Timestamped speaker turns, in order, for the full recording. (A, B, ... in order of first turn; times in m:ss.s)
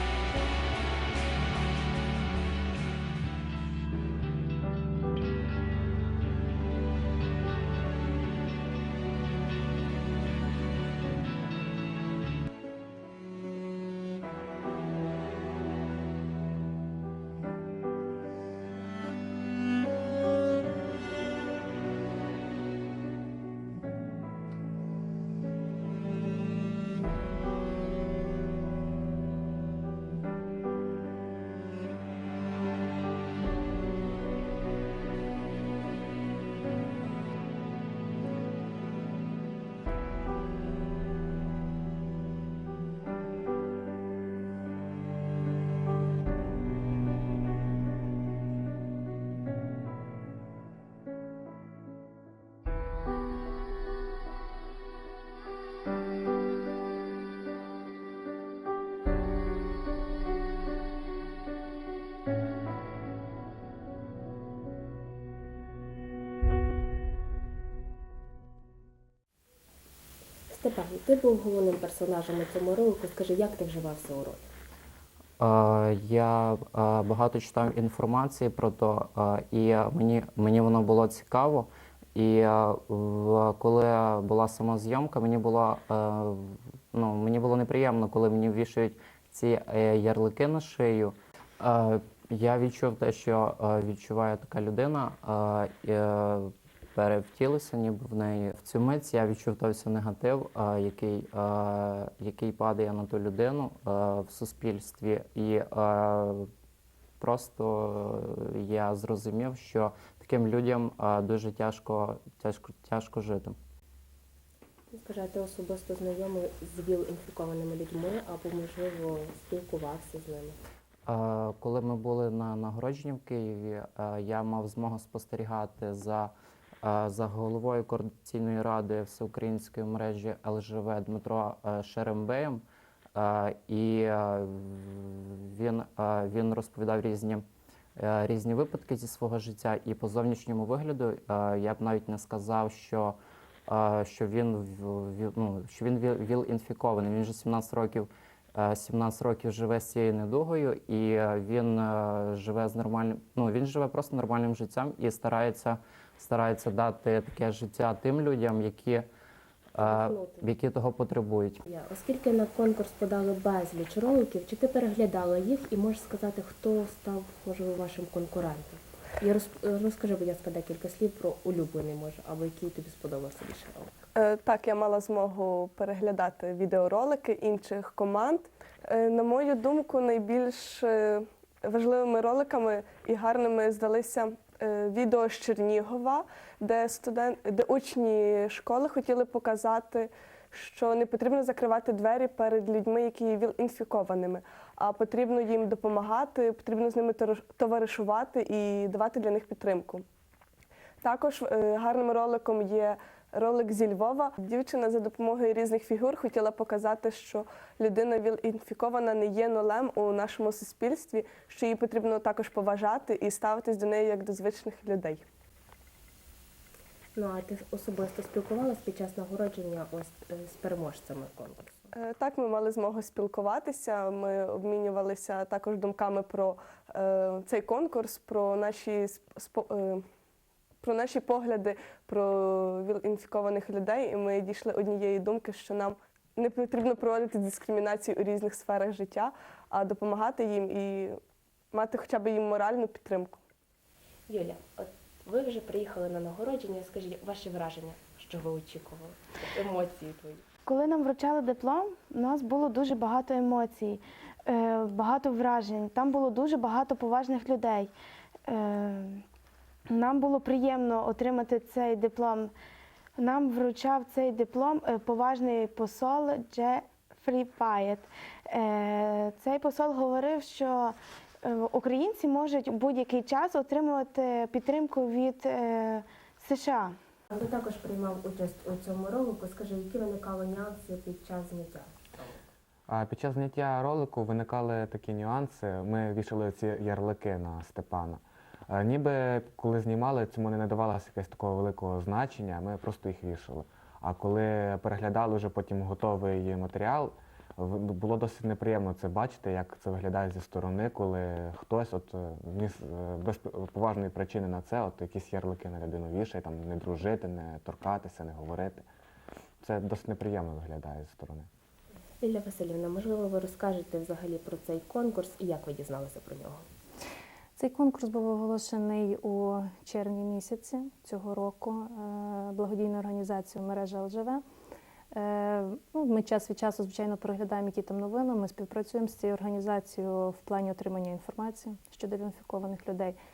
1:10.5-1:14.4 A
1:15.4-1:46.4 B
1:47.2-1:53.6 B
1:54.9-2:00.6 A
2:01.0-2:12.6 B
2:13.1-2:17.4 B
2:18.0-2:39.1 B
2:39.7-2:41.6 B
2:39.8-2:40.5 A
2:41.6-2:53.9 A
2:54.2-3:20.0 C
3:21.0-3:35.2 C
3:37.1-3:41.9 A
3:41.9-3:50.0 C
3:50.8-4:01.2 C
4:01.7-4:03.4 C
4:04.3-4:10.4 A
4:10.6-4:17.9 D
4:18.5-4:19.2 D
4:19.9-4:22.5 D
4:23.2-4:36.9 D
4:37.3-4:42.4 A
4:42.9-5:08.9 E
5:09.6-5:11.5 E
5:12.2-5:16.6 A
5:17.6-5:24.4 F
5:25.1-5:33.1 F